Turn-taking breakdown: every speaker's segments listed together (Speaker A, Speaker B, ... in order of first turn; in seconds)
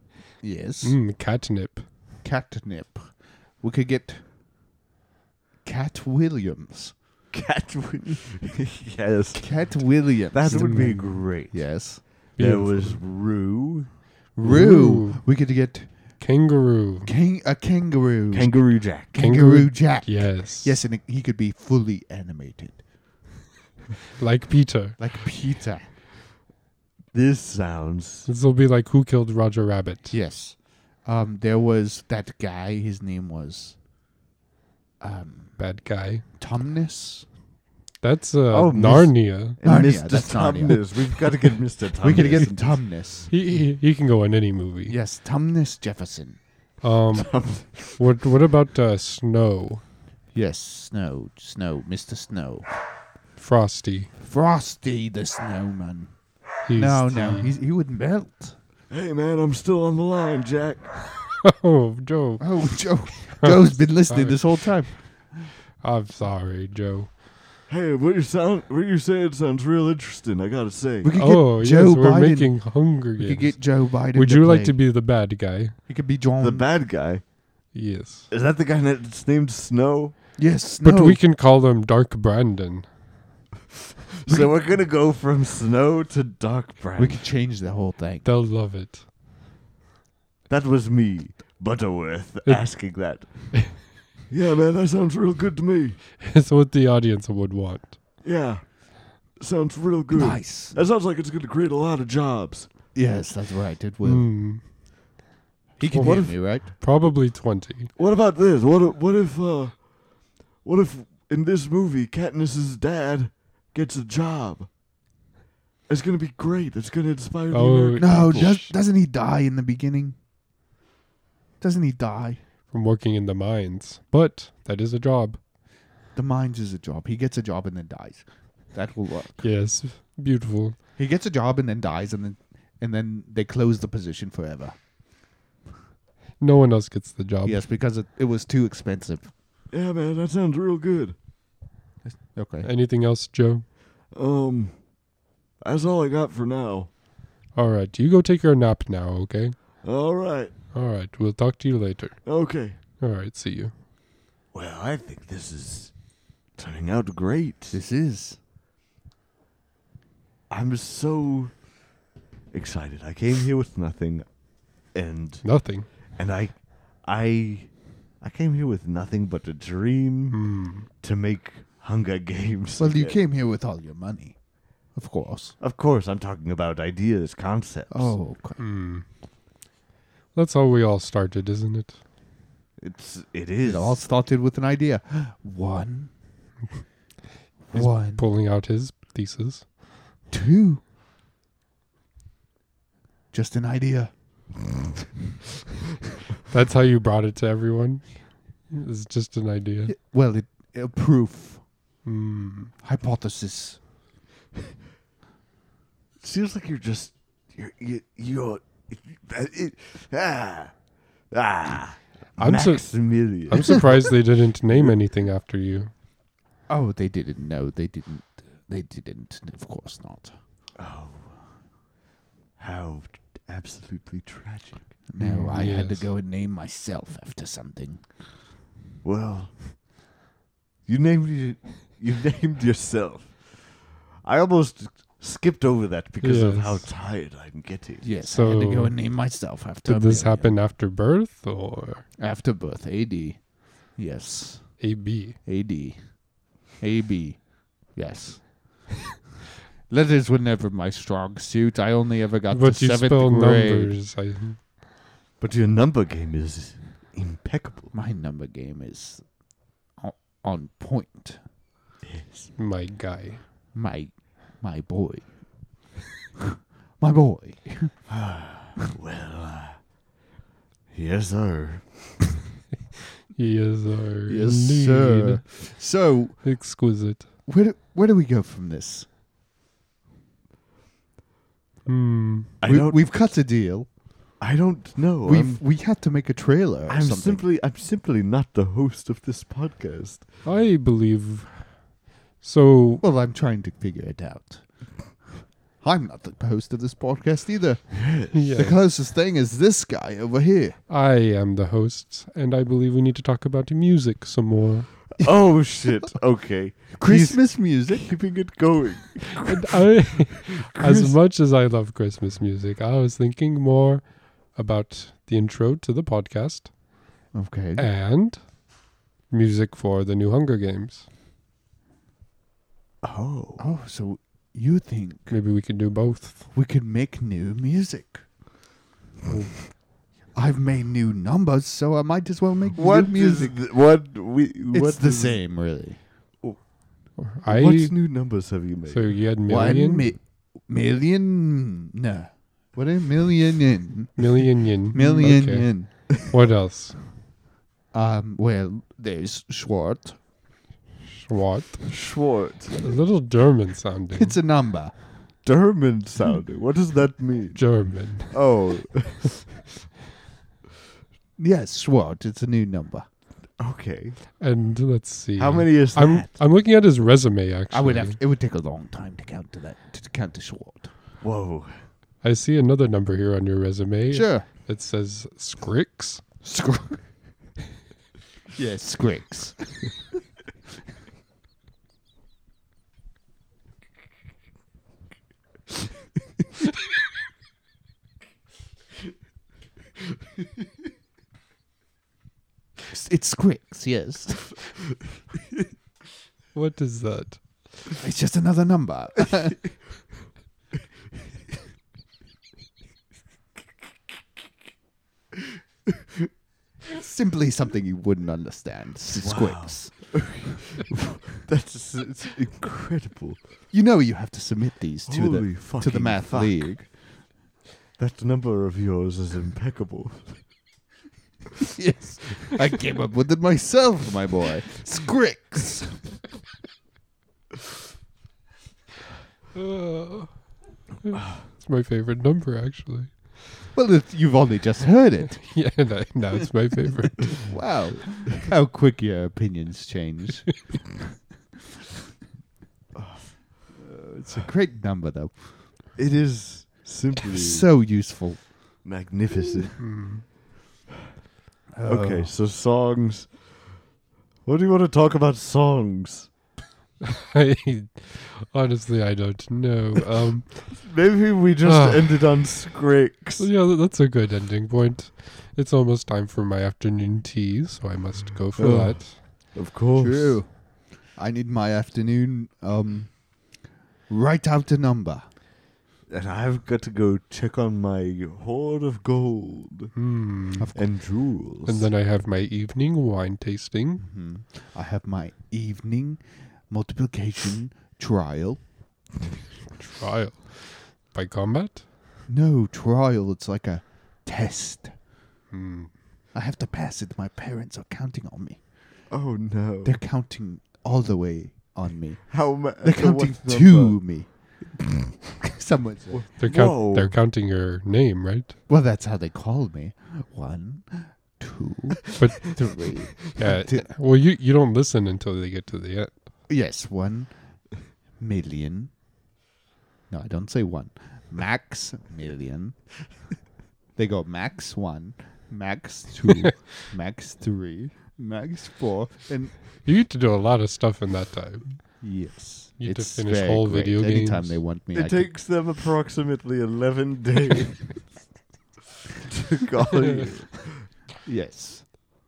Speaker A: 0.4-1.0, 2.2-3.1, 3.6-4.2, 5.6-6.9, 9.4-12.0, 14.3-15.9, 17.1-22.8, 25.0-25.9, 30.1-33.8, 35.0-35.6, 36.4-37.2, 39.6-41.4, 42.0-43.3, 44.9-46.4, 50.3-52.6, 54.2-56.1, 56.8-58.6, 62.4-65.3, 71.0-74.8, 75.9-76.7, 80.4-81.2, 87.0-88.3, 100.1-100.8, 103.0-104.3, 105.8-106.7, 118.0-120.2, 121.6-122.4, 126.2-129.5, 131.0-134.7, 137.4-139.3, 142.1-142.7, 157.7-158.4, 172.8-174.4, 174.9-175.6, 177.9-178.6, 183.6-186.1, 187.7-188.2, 190.3-190.8, 193.3-194.1, 199.9-201.6, 202.8-203.8, 216.7-220.4, 225.1-228.0, 238.0-240.6, 242.2-244.8, 245.4-246.2, 246.8-248.7, 249.9-253.9, 257.9-259.3, 260.0-261.4, 263.7-265.3, 267.0-267.9, 274.3-276.4, 277.4-279.1, 282.6-283.9, 285.2-287.4, 293.0-294.7, 295.8-300.8, 306.9-308.1, 317.3-317.9, 323.6-325.4, 326.5-328.2, 330.3-333.6, 334.7-336.0, 339.5-345.9, 347.9-350.2, 354.1-354.9, 361.4-363.1, 367.7-370.9, 374.1-374.5, 376.4-377.0, 378.6-379.8, 392.9-394.5, 398.0-399.6, 406.9-409.9, 413.7-416.9, 421.7-426.1, 433.7-435.4, 437.4-440.5, 443.7-445.6, 447.3-448.4, 451.7-452.3, 470.0-473.4, 474.1-475.2, 484.0-488.6, 492.3-494.9, 496.3-498.6, 499.8-504.5, 505.3-506.2, 508.7-513.9, 516.5-517.3, 518.2-518.9, 520.1-522.8, 524.0-529.5, 532.0-535.3, 541.2-541.9
Speaker B: 0.8-1.9, 10.5-11.0, 12.4-13.0, 14.4-15.2, 16.2-17.1, 19.2-20.8, 24.2-25.0, 28.3-30.1, 35.6-36.2, 38.0-39.6, 43.3-45.0, 46.8-49.8, 53.4-54.1, 56.7-57.5, 61.5-67.1, 71.2-75.8, 77.7-78.3, 80.8-82.9, 88.2-89.0, 92.5-93.6, 96.2-98.0, 104.0-104.9, 105.9-107.9, 117.5-118.7, 122.7-125.4, 129.4-130.8, 136.4-137.6, 142.6-143.7, 147.6-149.6, 150.7-152.2, 153.0-153.7, 165.4-165.9, 170.3-170.9, 178.6-179.1, 180.3-182.0, 187.7-189.7, 196.5-199.9, 202.1-202.7, 212.4-215.9, 225.2-226.1, 236.2-236.9, 238.3-239.0, 239.9-242.1, 244.8-245.4, 252.5-254.6, 262.6-263.4, 273.4-275.6, 276.4-277.3, 281.9-282.5, 290.4-293.0, 298.3-298.8, 300.9-305.0, 309.4-316.8, 317.8-318.6, 319.3-321.1, 325.3-326.4, 329.3-329.6, 337.2-337.9, 338.9-340.1, 344.2-347.1, 351.1-352.0, 352.8-354.4, 357.6-358.5, 364.4-368.2, 372.2-376.2, 396.5-397.8, 429.6-430.5, 431.0-433.3, 435.3-437.5, 449.8-450.2, 457.0-460.7, 461.6-462.2, 463.4-469.2, 479.9-480.7, 481.6-484.0, 489.8-491.9, 495.5-495.9, 506.4-508.6, 512.2-516.1, 529.8-531.8, 532.8-534.6
Speaker C: 7.3-9.4, 10.3-11.7, 12.4-13.9, 18.3-19.1, 27.1-28.3, 38.5-42.8, 47.1-48.0, 58.9-61.1, 67.7-71.1, 76.4-77.2, 78.3-80.2, 84.2-87.2, 90.5-93.7, 94.3-96.0, 98.2-102.7, 108.0-109.9, 110.6-114.7, 115.9-118.6, 139.7-141.2, 144.1-144.7, 145.6-146.9, 149.8-150.5, 152.2-152.8, 154.5-155.9, 156.6-157.8, 160.5-161.5, 162.5-164.3, 164.8-165.4, 166.2-173.2, 175.6-178.2, 182.8-184.0, 206.2-210.7, 211.3-214.2, 220.8-221.3, 222.6-224.9, 229.0-229.6, 230.9-238.1, 255.4-257.9, 262.0-262.5, 268.1-269.8, 270.9-272.2, 282.6-283.0, 284.4-285.6, 286.9-290.3, 297.9-298.6, 305.2-311.1, 323.0-323.6, 332.7-335.4, 337.4-339.2, 351.9-352.8, 355.4-359.4, 363.6-364.2, 365.4-366.4, 371.2-371.7, 409.1-413.4, 415.1-416.7, 418.0-420.4, 442.9-443.3, 445.9-447.7, 448.8-449.8, 451.8-453.4, 454.4-456.3, 460.7-463.5, 468.6-470.4, 476.1-479.9, 480.7-481.9, 499.1-500.0, 502.3-504.0, 506.1-507.1, 534.9-537.9, 539.2-540.9